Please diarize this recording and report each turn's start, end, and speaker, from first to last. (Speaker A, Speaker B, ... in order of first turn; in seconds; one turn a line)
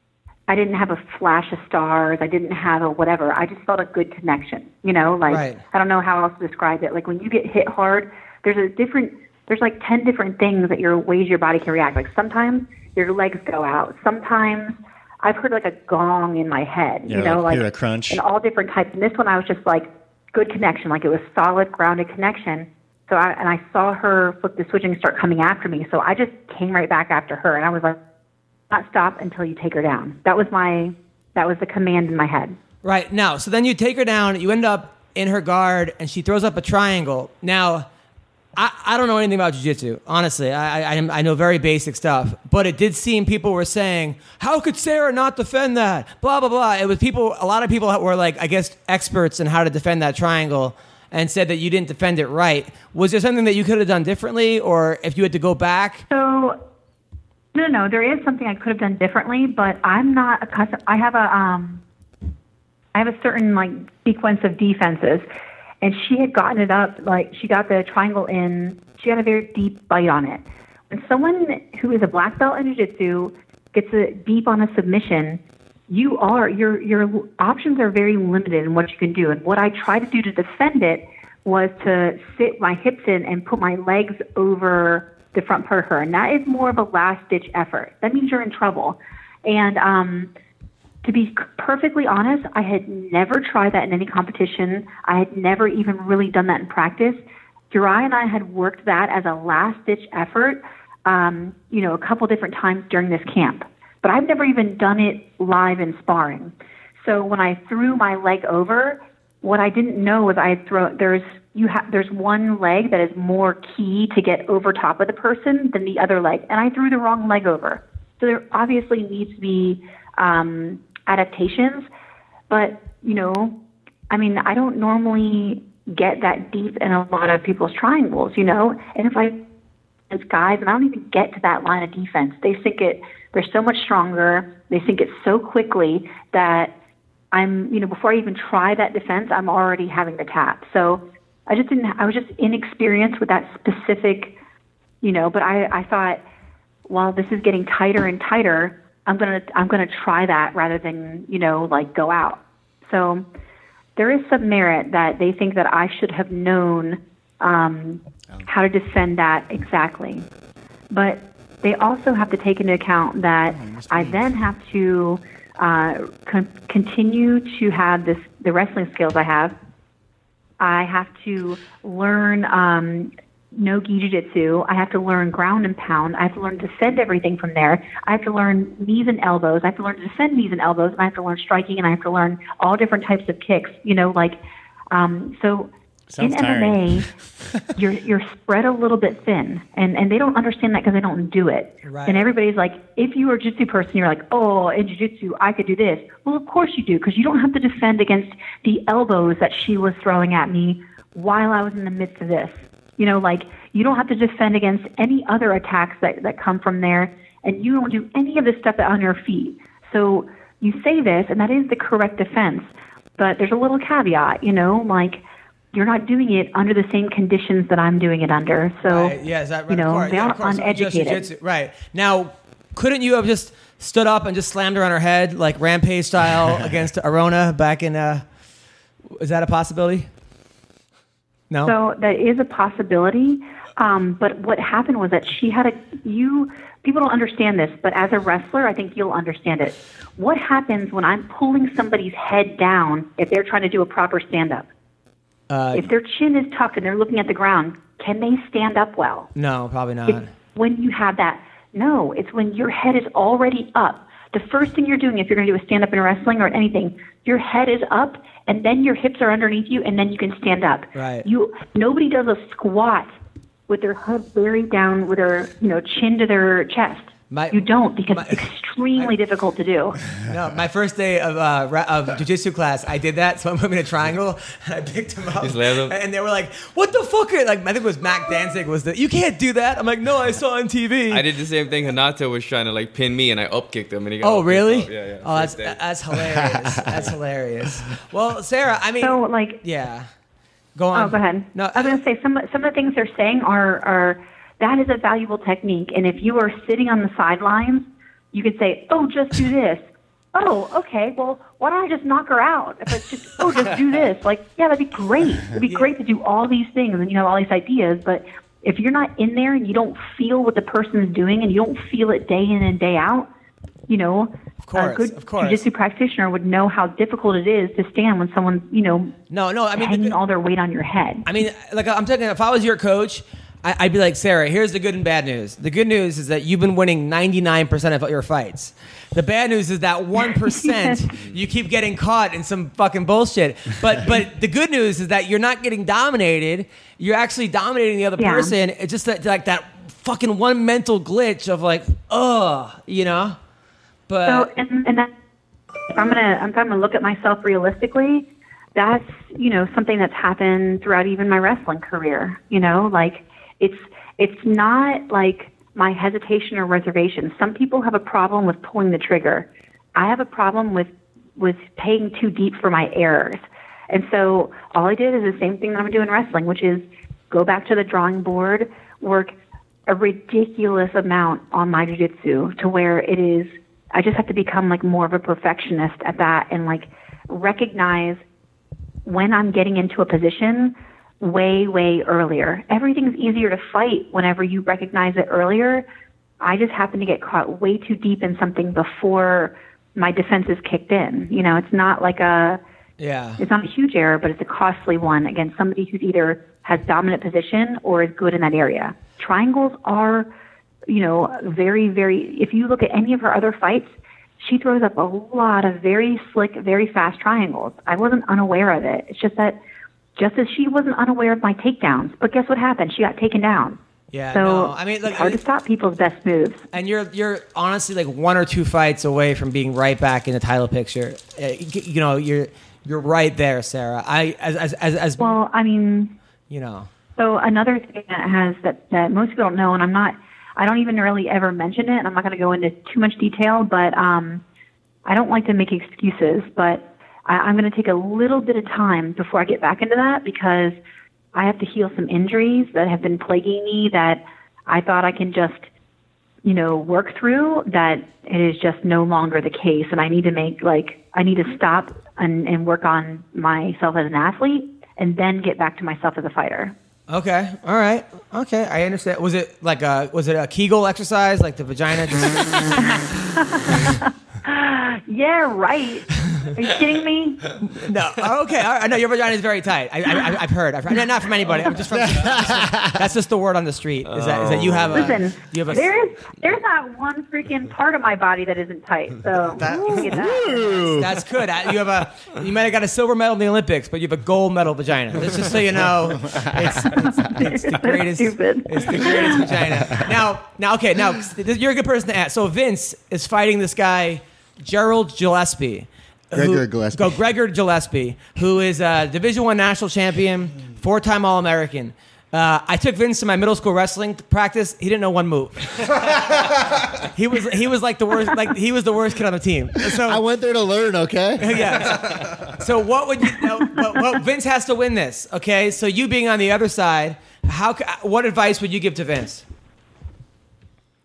Speaker A: 0.5-28.0
Speaker B: 5.3-5.6
Speaker C: 17.1-18.2
Speaker A: 28.7-32.6
Speaker B: 32.8-37.9
Speaker B: 38.6-56.0
Speaker A: 56.1-56.6
Speaker A: 57.5-61.8
Speaker A: 62.9-65.2
Speaker A: 65.8-90.3
Speaker A: 91.0-97.2
Speaker A: 97.7-121.9
Speaker A: 122.5-123.5
Speaker A: 124.1-129.4
Speaker A: 130.1-136.7
Speaker A: 137.3-144.3
Speaker A: 145.0-146.2
Speaker A: 146.9-153.3
Speaker A: 154.0-160.3
Speaker A: 160.9-169.6
Speaker C: 163.5-164.2
Speaker A: 170.6-184.4
Speaker A: 184.9-187.1
Speaker C: 186.1-187.6
Speaker A: 187.8-215.2
Speaker B: 191.8-192.2
Speaker A: 215.7-219.2
Speaker B: 218.8-228.2
Speaker A: 219.7-221.3
Speaker B: 229.1-230.1
Speaker B: 231.5-231.8
Speaker A: 231.6-244.7
Speaker B: 245.5-245.9
Speaker A: 245.7-249.3
Speaker B: 249.3-250.3
Speaker A: 250.1-263.1
Speaker B: 260.9-261.3
Speaker A: 263.7-270.0
Speaker B: 267.3-269.1
Speaker B: 270.2-281.2
Speaker D: 275.4-276.0
Speaker D: 281.1-285.8
Speaker B: 284.2-290.1
Speaker A: 289.0-289.6
Speaker B: 290.8-292.0
Speaker A: 290.9-313.3
Speaker B: 305.7-305.9
Speaker A: 313.9-319.1
Speaker B: 314.7-315.6
Speaker B: 319.3-320.2
Speaker A: 319.8-321.3
Speaker B: 321.2-343.4
Speaker A: 330.6-330.9
Speaker A: 338.2-338.5
Speaker B: 344.1-344.5
Speaker A: 344.3-345.1
Speaker A: 345.9-369.3
Speaker A: 369.9-378.2
Speaker A: 379.1-385.9
Speaker A: 386.4-392.6
Speaker B: 393.0-393.4
Speaker A: 393.4-400.3
Speaker A: 400.9-409.6
Speaker A: 410.2-413.8
Speaker B: 414.1-415.4
Speaker A: 414.3-416.6
Speaker B: 416.7-425.4
Speaker A: 425.2-426.1
Speaker B: 426.5-426.9
Speaker A: 427.2-434.4
Speaker A: 435.1-440.8
Speaker A: 441.3-445.7
Speaker A: 446.4-456.8
Speaker B: 457.1-463.0
Speaker A: 462.8-467.5
Speaker B: 467.6-475.9
Speaker C: 471.9-473.0
Speaker D: 474.2-475.1
Speaker A: 474.9-480.9
Speaker C: 479.6-481.1
Speaker B: 480.7-505.7
Speaker C: 486.2-486.7
Speaker A: 487.0-489.5
Speaker C: 496.3-497.2
Speaker B: 507.1-510.2
Speaker C: 509.8-512.0
Speaker B: 511.4-519.4